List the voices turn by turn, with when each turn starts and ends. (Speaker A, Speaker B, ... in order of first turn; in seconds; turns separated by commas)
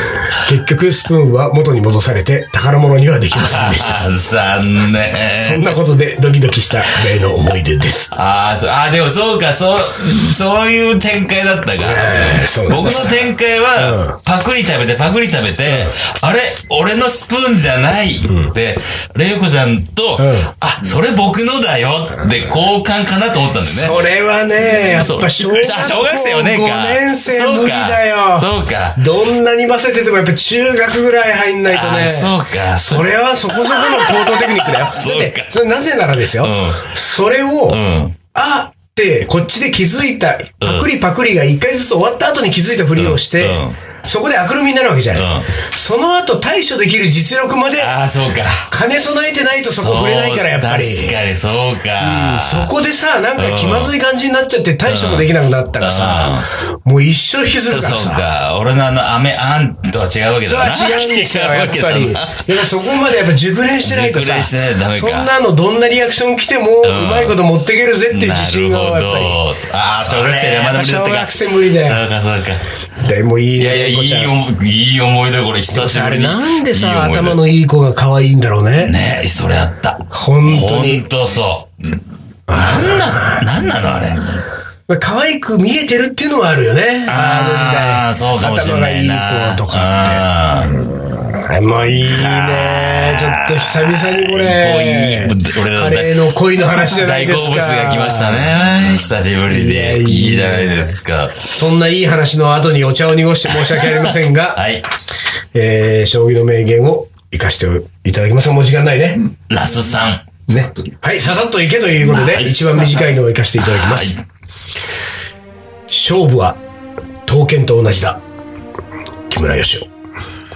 Speaker A: 0.3-4.0, Speaker B: 3.3-5.8, Speaker A: 5.3-8.2, Speaker B: 8.1-24.0, Speaker A: 11.8-13.2, Speaker A: 13.8-14.2, Speaker A: 15.7-15.9, Speaker A: 18.3-18.5, Speaker A: 20.2-20.5, Speaker A: 23.6-37.8, Speaker B: 24.6-29.0, Speaker B: 31.7-35.6, Speaker B: 36.4-36.9, Speaker B: 37.7-38.2, Speaker A: 38.3-47.9, Speaker B: 40.6-40.9, Speaker B: 43.0-43.8, Speaker B: 45.1-45.5, Speaker B: 47.8-48.7, Speaker A: 48.5-51.2, Speaker B: 49.6-52.7, Speaker A: 52.0-58.3, Speaker B: 53.4-54.0, Speaker B: 54.9-55.3, Speaker B: 55.8-56.5, Speaker B: 57.7-62.9, Speaker A: 60.5-72.0, Speaker B: 63.8-65.3, Speaker B: 66.8-67.4, Speaker B: 68.1-72.6, Speaker A: 73.0-74.3, Speaker B: 73.6-77.5, Speaker A: 75.7-79.0, Speaker B: 78.8-84.4, Speaker A: 80.1-81.1, Speaker A: 82.5-83.5, Speaker A: 84.9-98.5, Speaker B: 87.1-90.8, Speaker B: 91.9-101.5, Speaker A: 99.5-104.6, Speaker B: 103.5-104.8, Speaker A: 105.5-109.2, Speaker B: 109.5-110.4, Speaker A: 110.5-114.2, Speaker B: 112.0-113.0, Speaker B: 113.6-114.2, Speaker A: 115.9-116.6, Speaker A: 117.3-118.2, Speaker A: 119.3-119.9